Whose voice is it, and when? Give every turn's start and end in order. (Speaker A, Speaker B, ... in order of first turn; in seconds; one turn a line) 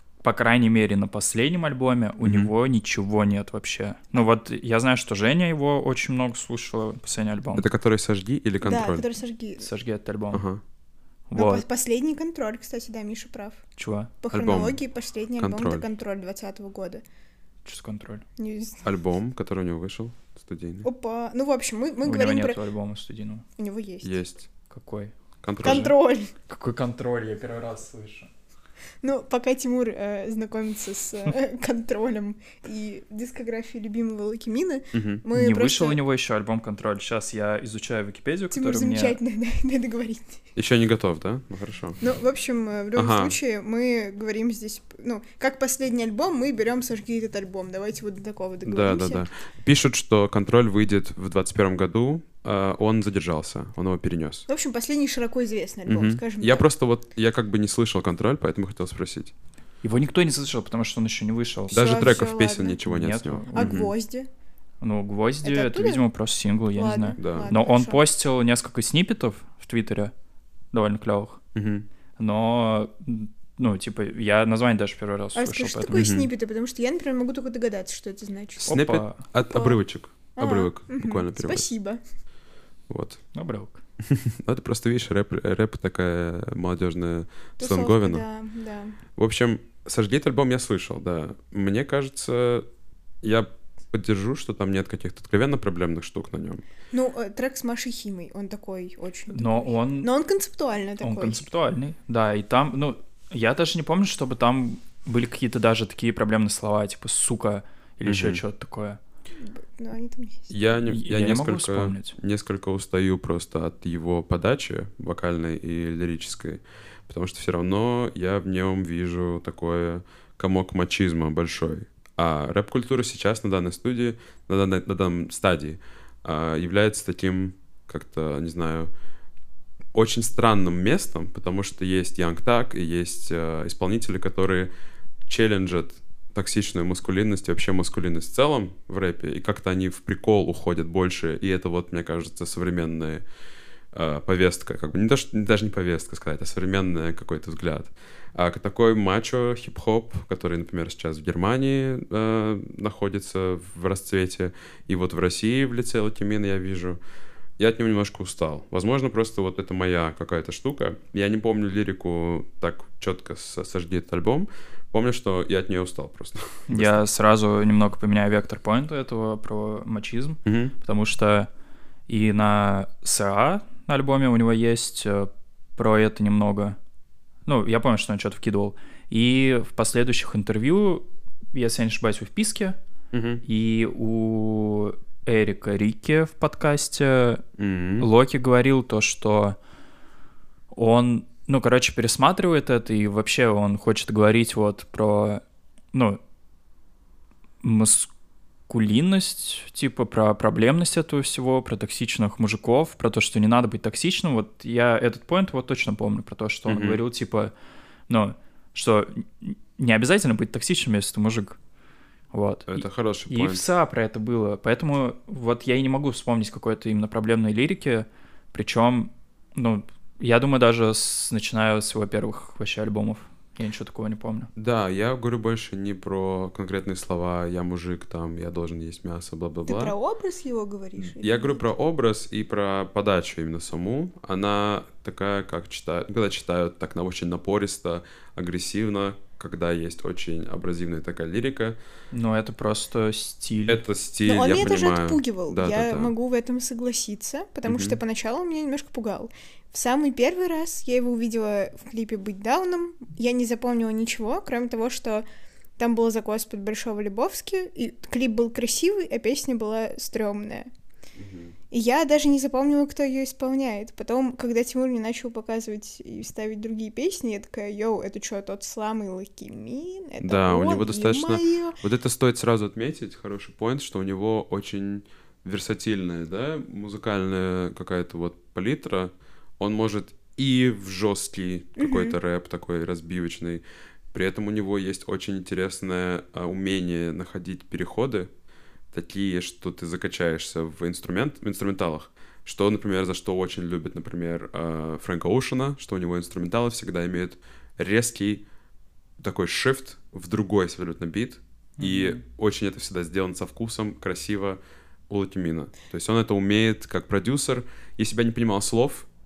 Speaker A: 0.2-7.7
Speaker B: 2.2-2.5
Speaker B: 7.5-9.1
Speaker C: 8.6-9.6
Speaker A: 9.6-10.4
Speaker B: 10.3-10.6
Speaker A: 11.3-11.6
Speaker C: 11.3-13.6
Speaker A: 13.8-14.1
Speaker C: 14.2-17.0
Speaker B: 14.3-14.8
Speaker B: 15.4-15.8
Speaker A: 17.6-18.2
Speaker C: 18.4-18.8
Speaker B: 18.8-20.9
Speaker C: 20.8-22.6
Speaker A: 22.0-23.4
Speaker C: 23.6-24.2
Speaker B: 24.0-24.5
Speaker A: 24.7-25.1
Speaker B: 25.4-25.9
Speaker C: 25.6-26.3
Speaker A: 26.5-28.3
Speaker C: 29.0-36.0
Speaker B: 34.9-35.2
Speaker A: 35.3-39.2
Speaker C: 38.5-40.4
Speaker B: 40.5-42.0
Speaker C: 42.0-49.3
Speaker B: 42.9-43.4
Speaker B: 48.6-54.5
Speaker C: 54.5-56.6
Speaker B: 55.9-59.3
Speaker A: 59.8-62.0
Speaker B: 61.7-63.9
Speaker C: 61.7-62.8
Speaker A: 62.9-63.8
Speaker C: 63.5-64.3
Speaker A: 64.8-70.1
Speaker C: 65.4-66.0
Speaker C: 66.7-68.0
Speaker B: 67.2-67.5
Speaker A: 70.7-71.4
Speaker B: 71.5-71.8
Speaker A: 72.2-76.1
Speaker C: 75.3-78.7
Speaker B: 75.9-76.3
Speaker B: 78.6-81.7
Speaker A: 78.7-79.2
Speaker C: 79.5-79.8
Speaker C: 80.3-82.0
Speaker B: 82.9-83.2
Speaker A: 83.3-83.8
Speaker B: 84.0-88.2
Speaker C: 87.6-89.0
Speaker B: 89.2-92.7
Speaker B: 93.2-96.6
Speaker C: 96.9-101.5
Speaker A: 99.3-100.1
Speaker A: 101.0-109.0
Speaker B: 108.0-108.4
Speaker C: 109.4-110.5
Speaker B: 110.5-128.9
Speaker A: 110.9-112.2
Speaker B: 129.9-134.7
Speaker B: 135.3-143.2
Speaker B: 143.9-157.0
Speaker B: 157.6-167.0
Speaker A: 166.7-171.5
Speaker B: 170.4-170.7
Speaker A: 172.1-176.8
Speaker A: 177.4-182.8
Speaker B: 183.1-183.4
Speaker A: 183.4-187.4
Speaker B: 187.6-188.1
Speaker A: 188.0-189.6
Speaker A: 190.7-195.4
Speaker A: 195.9-196.2
Speaker A: 197.6-198.1
Speaker A: 198.7-207.5
Speaker B: 206.7-207.0
Speaker A: 208.1-211.6
Speaker A: 212.3-224.5
Speaker B: 212.7-213.6
Speaker B: 224.6-229.9
Speaker C: 229.7-231.7
Speaker B: 231.0-241.8
Speaker A: 242.1-243.8
Speaker B: 243.7-246.1
Speaker C: 244.2-255.2
Speaker B: 247.7-248.0
Speaker C: 255.8-260.7
Speaker B: 261.1-261.5
Speaker C: 261.7-271.8
Speaker B: 270.2-288.3
Speaker C: 281.8-282.1
Speaker B: 288.9-298.4
Speaker B: 299.2-309.1
Speaker A: 301.8-302.2